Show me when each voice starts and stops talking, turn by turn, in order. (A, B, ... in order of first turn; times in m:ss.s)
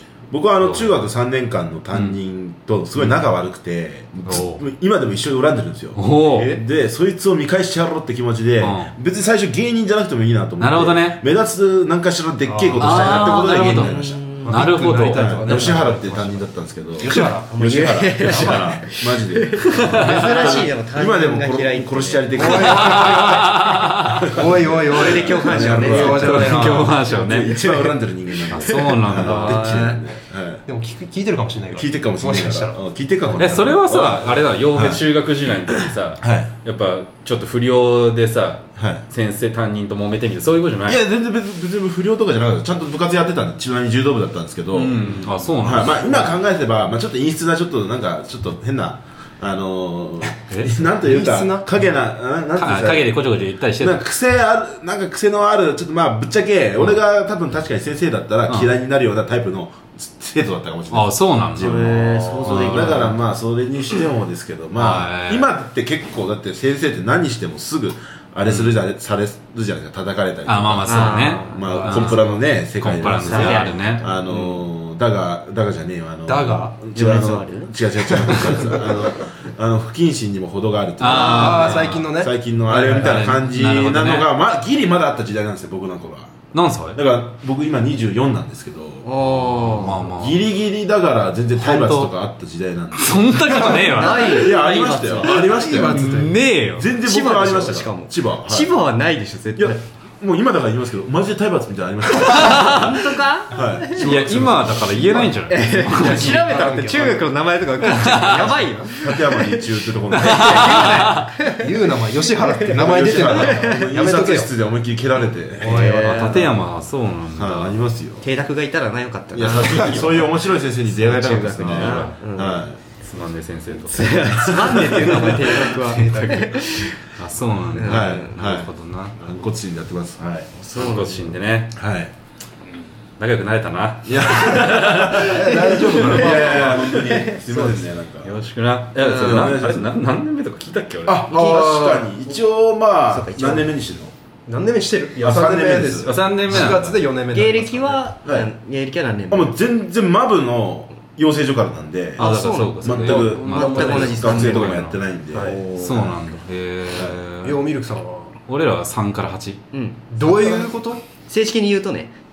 0:00.3-0:14.4 A
0:00.6-0:01.0 B
0:01.9-0:02.2 B
0:03.0-0:03.2 B
0:04.3-0:04.6 B
0:06.0-0:06.6 B
0:06.3-0:06.6 C
0:08.6-0:08.9 B
0:10.6-0:11.2 B
0:12.4-0:16.5 C
0:12.8-0:13.9 B
0:13.7-0:14.7 D
0:14.5-0:15.7 B
0:15.1-0:23.2 A
0:17.0-0:17.5 C
0:17.5-0:22.8 D
0:18.3-0:18.5 B
0:19.7-0:20.7 B
0:22.3-0:23.6 C
0:22.7-0:24.3 B
0:24.2-0:27.0 C
0:24.4-0:30.6 A
0:24.9-0:26.5 D
0:26.0-0:27.6 B
0:27.5-0:27.9 D
0:28.5-0:30.0 D
0:28.5-0:29.9 B
0:30.7-0:32.8 C
0:31.7-0:35.0 A
0:33.4-0:41.0 B
0:35.7-0:36.5 A
0:38.8-0:39.0 A
0:40.8-0:53.3 A
0:44.7-0:46.3 B
0:50.5-0:50.9 B
0:51.0-0:51.8 C
0:52.6-0:54.0 B
0:53.8-1:26.3 A
1:00.9-1:03.2 B
1:01.6-1:03.2 D
1:04.8-1:05.5 B
1:08.4-1:08.7 B
1:10.5-1:14.0 B
1:10.8-1:12.1 D
1:11.7-1:12.2 C
1:13.2-1:14.6 D
1:16.3-1:16.8 C
1:16.9-1:19.1 D
1:21.0-1:22.1 B
1:21.1-1:23.3 C
1:21.1-1:21.5 D
1:22.8-1:24.3 B
1:26.5-1:27.0 B
1:26.9-1:29.1 A
1:29.0-1:30.0 D
1:29.2-1:30.4 B
1:29.9-1:38.8 A
1:31.6-1:32.1 B
1:33.0-1:36.9 B
1:33.9-1:35.5 D
1:35.5-1:36.5 C
1:37.0-1:39.8 D
1:39.6-1:45.8 A
1:42.2-1:44.1 D
1:42.4-1:42.9 B
1:44.0-1:46.5 B
1:45.5-1:51.7 D
1:45.9-1:47.2 C
1:47.8-1:48.7 B
1:49.0-1:51.0 A
1:50.2-1:51.3 B
1:51.5-1:54.5 C
1:52.2-1:54.0 D
1:52.7-1:55.7 A
1:55.2-1:56.6 D
1:55.6-1:56.4 C
1:55.9-1:57.8 B
1:57.4-1:58.3 A
1:58.2-2:02.6 D
1:59.3-2:02.8 A
2:01.6-2:02.2 B
2:03.0-2:04.3 B
2:03.9-2:07.0 D
2:04.3-2:05.8 A
2:05.0-2:09.2 B
2:07.8-2:08.4 D
2:07.8-2:10.5 A
2:10.6-2:11.4 D
2:10.7-2:11.7 B
2:11.7-2:12.1 A
2:13.2-2:16.1 B
2:14.0-2:18.5 A
2:15.2-2:17.0 C
2:16.1-2:17.8 D
2:18.2-2:21.2 B
2:19.0-2:19.5 D
2:19.0-2:19.9 A
2:21.0-2:24.1 A
2:21.3-2:22.1 D
2:23.1-2:23.7 D
2:24.5-2:28.1 C
2:25.2-2:26.2 A
2:26.0-2:27.0 B
2:27.3-2:29.5 D
2:29.3-2:36.2 A
2:32.2-2:34.7 D
2:32.2-2:35.0 B
2:33.0-2:34.7 C
2:35.3-2:35.6 C
2:35.4-2:36.1 D
2:35.8-2:37.6 B
2:36.9-2:37.2 A
2:37.4-2:38.4 C
2:38.5-2:39.6 B
2:39.7-2:42.1 D
2:40.1-2:41.0 C